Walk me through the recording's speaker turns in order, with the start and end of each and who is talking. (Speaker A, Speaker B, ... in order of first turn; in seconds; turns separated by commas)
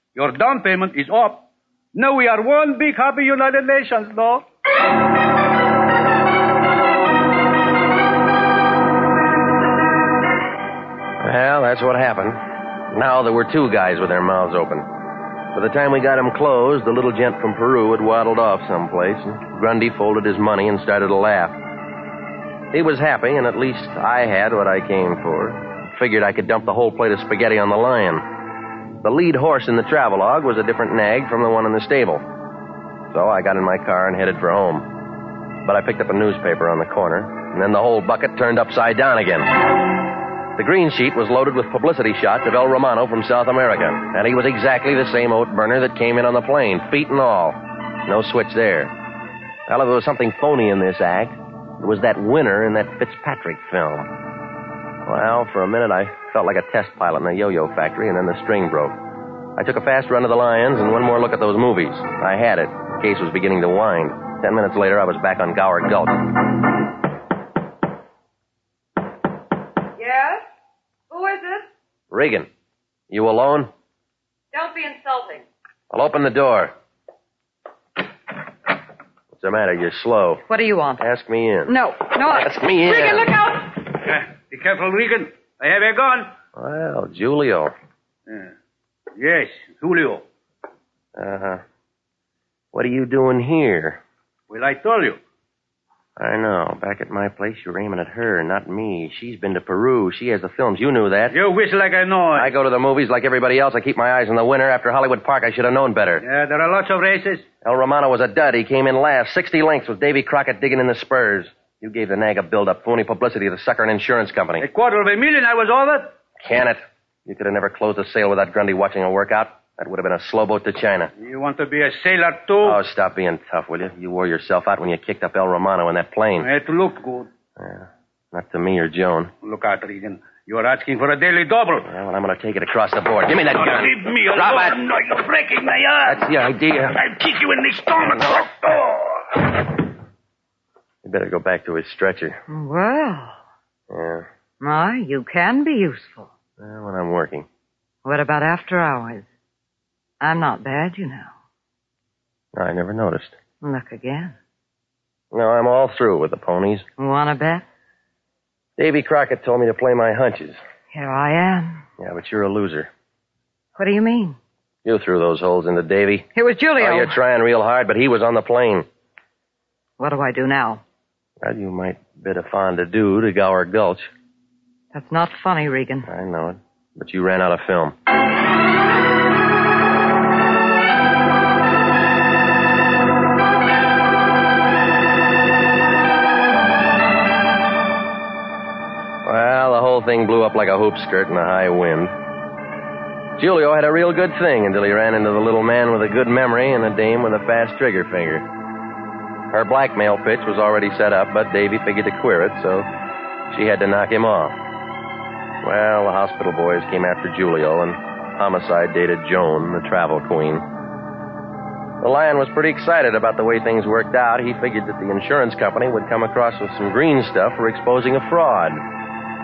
Speaker A: 0.1-4.4, Speaker B: 11.2-12.4, Speaker B: 12.9-14.9, Speaker B: 15.5-21.6, Speaker B: 22.7-28.3, Speaker B: 29.0-32.2, Speaker B: 33.1-34.9, Speaker B: 35.6-39.5, Speaker B: 40.6-48.9, Speaker B: 49.7-54.1, Speaker B: 55.0-59.0, Speaker B: 59.6-66.3, Speaker C: 70.0-70.5, Speaker C: 71.1-71.7, Speaker B: 72.1-72.5, Speaker B: 73.1-73.7, Speaker C: 74.5-75.5, Speaker B: 75.9-76.7, Speaker B: 79.3-80.4, Speaker C: 80.5-81.0, Speaker B: 81.0-83.4, Speaker C: 81.7-82.5, Speaker C: 83.0-83.3, Speaker A: 84.0-86.3, Speaker B: 86.5-87.7, Speaker A: 89.2-90.2, Speaker B: 91.2-91.6, Speaker B: 92.7-94.0, Speaker A: 94.5-95.2, Speaker B: 96.2-101.4, Speaker A: 101.3-102.5, Speaker B: 102.3-106.2, Speaker A: 106.2-107.5, Speaker B: 107.6-114.7, Speaker A: 114.6-116.1, Speaker B: 116.4-121.1, Speaker A: 121.2-122.8, Speaker B: 122.6-126.5, Speaker A: 126.4-127.3, Speaker B: 127.6-129.3, Speaker A: 129.4-131.9, Speaker B: 131.8-134.8, Speaker D: 133.5-136.3, Speaker B: 136.1-137.0, Speaker D: 136.9-139.2, Speaker B: 141.0-142.4, Speaker C: 142.5-143.4, Speaker B: 143.9-144.3, Speaker C: 144.6-146.3, Speaker B: 146.6-147.5, Speaker C: 148.1-149.3, Speaker C: 150.2-151.3, Speaker B: 152.5-153.3, Speaker C: 153.6-154.3, Speaker B: 155.3-156.9, Speaker C: 157.0-157.6, Speaker B: 158.8-160.6, Speaker C: 160.9-161.8, Speaker B: 162.0-162.9, Speaker C: 163.8-164.4, Speaker B: 164.8-168.9, Speaker C: 166.3-167.1, Speaker C: 170.0-170.8, Speaker B: 171.4-174.1, Speaker C: 174.9-176.1, Speaker B: 176.1-177.9, Speaker B: 189.2-192.1, Speaker B: 193.4-198.5, Speaker B: 199.5-202.9, Speaker B: 203.5-204.6, Speaker B: 205.6-210.7, Speaker B: 212.0-218.8